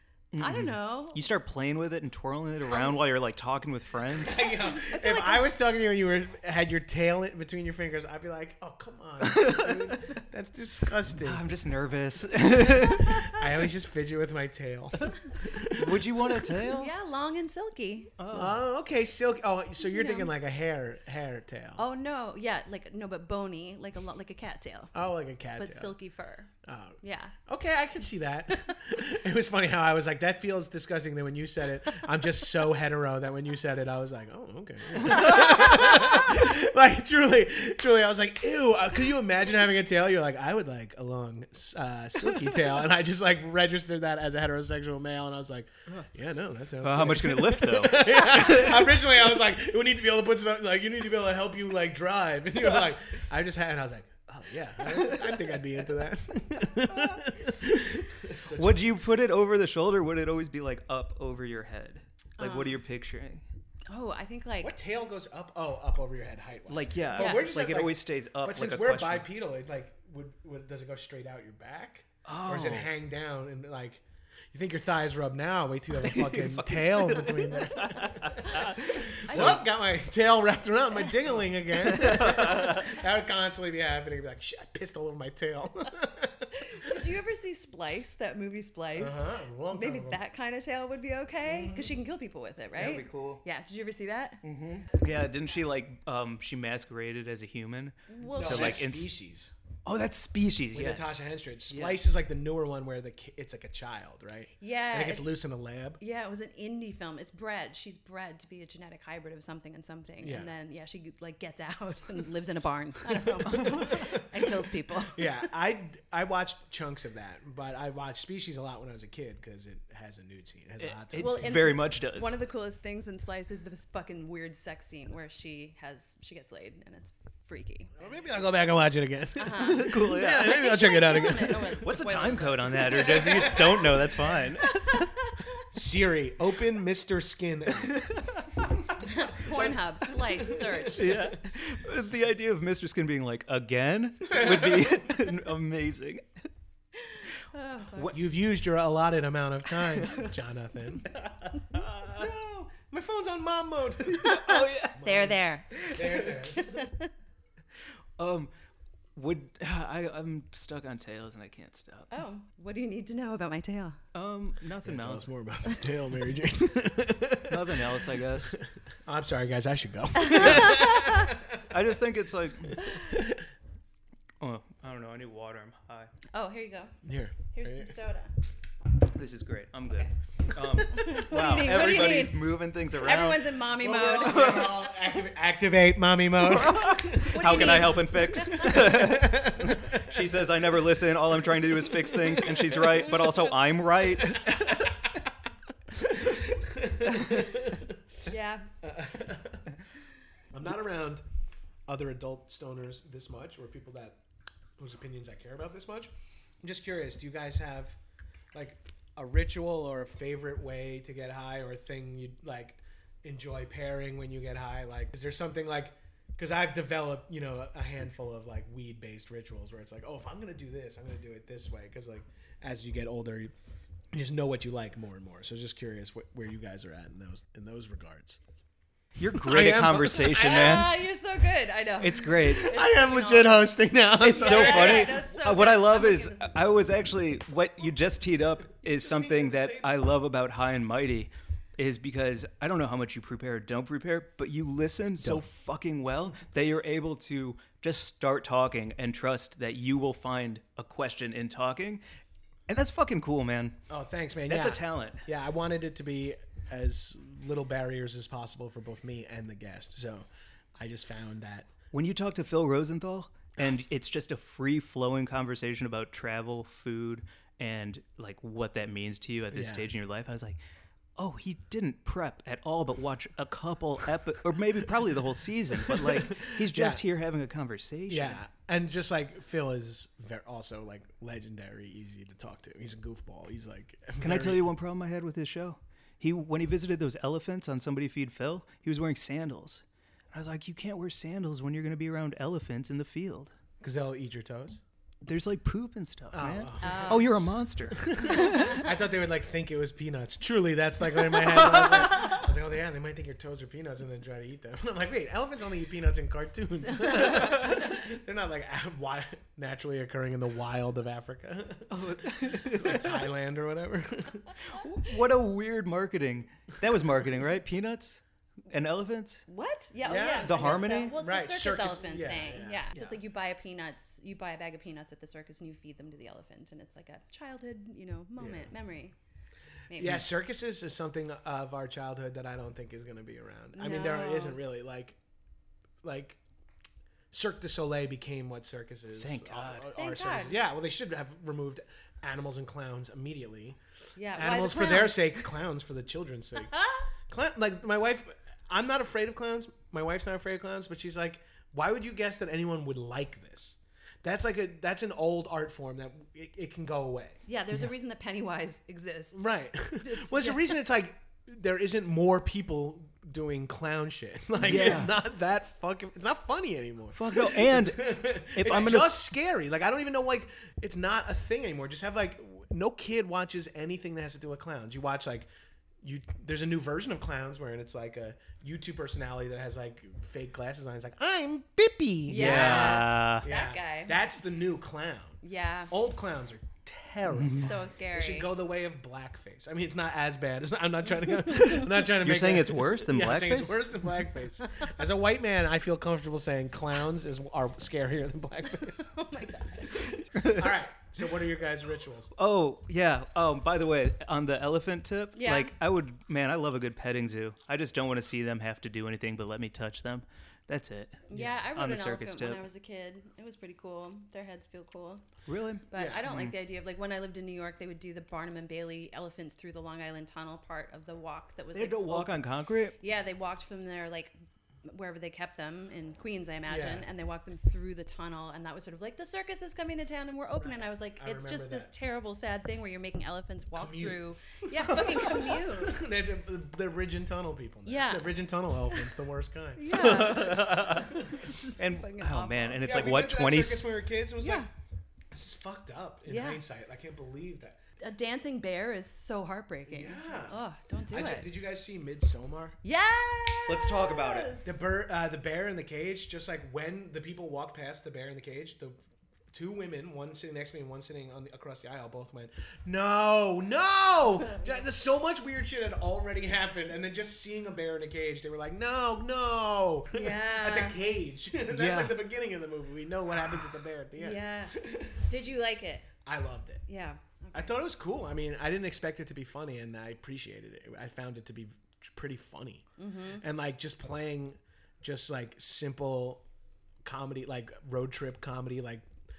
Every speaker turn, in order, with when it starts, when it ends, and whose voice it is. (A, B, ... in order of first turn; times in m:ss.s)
0:00.3-0:04.4 A
0:00.4-0:01.2 B
0:04.2-0:11.4 C
0:04.4-0:05.5 B
0:09.2-0:10.0 A
0:11.1-0:13.4 A
0:12.8-0:16.4 C
0:15.7-0:16.9 A
0:16.7-0:18.1 B
0:18.2-0:18.6 A
0:18.3-0:21.8 C
0:19.8-0:20.3 B
0:21.8-0:24.9 B
0:24.9-0:25.9 C
0:25.6-0:26.5 B
0:26.6-0:58.9 C
0:27.0-0:27.3 B
0:35.0-0:35.3 A
0:46.8-0:48.9 A
0:58.5-1:03.4 A
1:02.4-1:02.8 B
1:03.9-1:04.7 B
1:04.6-1:14.0 C
1:06.7-1:09.3 A
1:07.2-1:07.4 B
1:12.2-1:12.9 A
1:14.5-1:27.0 C
1:16.0-1:19.6 A
1:19.3-1:19.6 B
1:21.0-1:21.3 B
1:21.9-1:22.8 A
1:26.6-1:34.4 B
1:29.0-1:30.2 C
1:31.4-1:31.9 C
1:32.8-1:33.4 A
1:34.4-1:39.1 A
1:38.1-1:38.8 B
1:38.3-1:39.5 C
1:39.8-1:42.0 A
1:40.7-1:46.0 C
1:44.6-1:45.3 B
1:46.0-1:55.4 B
1:50.2-1:50.5 C
1:53.4-1:54.4 C
1:55.1-2:01.7 C
2:00.8-2:02.3 A
2:01.2-2:07.9 B
2:08.0-2:11.8 C
2:09.4-2:13.6 B
2:09.5-2:10.7 A
2:11.8-2:15.0 A
2:12.9-2:14.2 C
2:14.8-2:15.1 B
2:15.7-2:18.0 C
2:17.8-2:18.4 A
2:19.0-2:21.1 B
2:20.6-2:21.3 C
2:20.9-2:26.3 A
2:27.1-2:28.1 B
2:28.1-2:31.3 C
2:31.7-2:32.2 A
2:32.0-2:36.9 C
2:34.1-2:35.0 A
2:34.1-2:37.1 B
2:38.2-2:38.5 A
2:39.1-2:42.1 A
2:42.1-2:44.0 B
2:44.1-2:45.3 A
2:44.8-2:47.7 C
2:47.5-2:48.6 A
2:48.4-2:51.7 C
2:50.2-2:51.3 B
2:50.3-2:50.9 A
2:51.7-2:52.8 A
2:52.8-2:53.4 C
2:54.4-2:56.1 A
2:56.3-2:56.9 B
2:57.0-2:57.9 C
2:57.5-2:58.3 B
2:59.1-3:03.4 A
3:00.9-3:04.9 B
3:03.8-3:10.2 C
3:04.2-3:04.8 A
3:06.4-3:14.9 A
3:07.3-3:08.9 B
3:14.4-3:14.9 C
3:16.0-3:18.0 C
3:18.3-3:18.7 B
3:18.8-3:19.6 C
3:20.5-3:21.2 C
3:21.9-3:24.2 C
3:24.8-3:26.1 C
3:26.6-3:28.0 C
3:28.5-3:43.5 C
3:44.1-3:48.4 C
3:49.2-3:51.0 A
3:49.3-3:50.8 C
3:50.3-3:56.6 B
3:52.0-3:52.8 A
3:52.4-3:55.2 C
3:54.2-4:12.0 A
3:58.8-3:59.9 C
4:12.7-4:13.8 A
4:13.9-4:20.3 C
4:14.5-4:15.2 A
4:20.8-4:21.7 C
4:21.9-4:30.6 A
4:29.5-4:29.9 C
4:31.2-4:38.4 A
4:35.9-4:37.0 C
4:38.1-4:44.7 C
4:44.2-4:53.5 A
4:53.8-4:54.8 C
4:55.2-4:58.8 A
4:56.3-4:57.3 C
4:56.8-4:57.3 B
4:57.9-5:14.7 C
5:01.4-5:02.3 A
5:11.9-5:13.3 A
5:14.7-5:19.4 A
5:19.5-5:29.1 B
5:20.0-5:22.9 C
5:20.4-5:21.1 A
5:28.4-5:28.7 C
5:29.9-5:30.2 B
5:30.0-5:35.2 C
5:33.7-5:34.6 B
5:36.0-5:36.4 C
5:37.3-5:43.8 C
5:39.2-5:39.9 A
5:40.0-5:40.6 B
5:44.2-5:45.3 B
5:44.3-5:46.7 C
5:46.6-5:47.1 B
5:47.3-5:57.4 C
5:57.5-6:00.8 B
5:59.3-6:15.5 C
6:04.6-6:05.1 A
6:07.1-6:09.2 A
6:16.0-6:39.1 C
6:22.3-6:24.2 B
6:22.3-6:23.4 A
6:25.4-6:25.9 B
6:27.4-6:27.7 A
6:27.6-6:28.5 B
6:32.1-6:33.8 A
6:38.8-6:40.2 B
6:40.3-6:40.7 A
6:40.4-6:42.3 C
6:42.4-6:52.6 A
6:45.4-6:45.7 B
6:51.3-6:55.2 B
6:51.3-6:51.6 C
6:55.4-6:56.5 A
6:55.9-7:02.4 B
6:56.0-6:56.2 C
7:01.7-7:03.0 A
7:03.0-7:04.3 B
7:04.8-7:16.0 B
7:06.7-7:07.1 C
7:10.6-7:11.9 C
7:13.8-7:21.3 C
7:17.9-7:18.3 B
7:19.8-7:22.8 B
7:19.9-7:21.2 A
7:21.8-7:23.9 A
7:22.8-7:24.7 C
7:24.4-7:24.7 B
7:25.3-7:27.8 C
7:26.3-7:26.6 B
7:28.0-7:31.5 B
7:29.9-7:30.6 C
7:31.1-7:32.8 C
7:32.8-7:34.7 B
7:33.6-7:34.5 A
7:34.6-7:39.0 C
7:39.5-7:55.2 C
7:44.4-7:44.8 B
7:50.1-7:51.0 B
7:51.7-7:52.2 A
7:54.1-7:56.1 B
7:56.2-7:56.8 C
7:56.9-7:57.7 B
7:57.5-8:02.9 C
8:03.0-8:03.4 B
8:03.4-8:06.4 C
8:07.0-8:09.0 C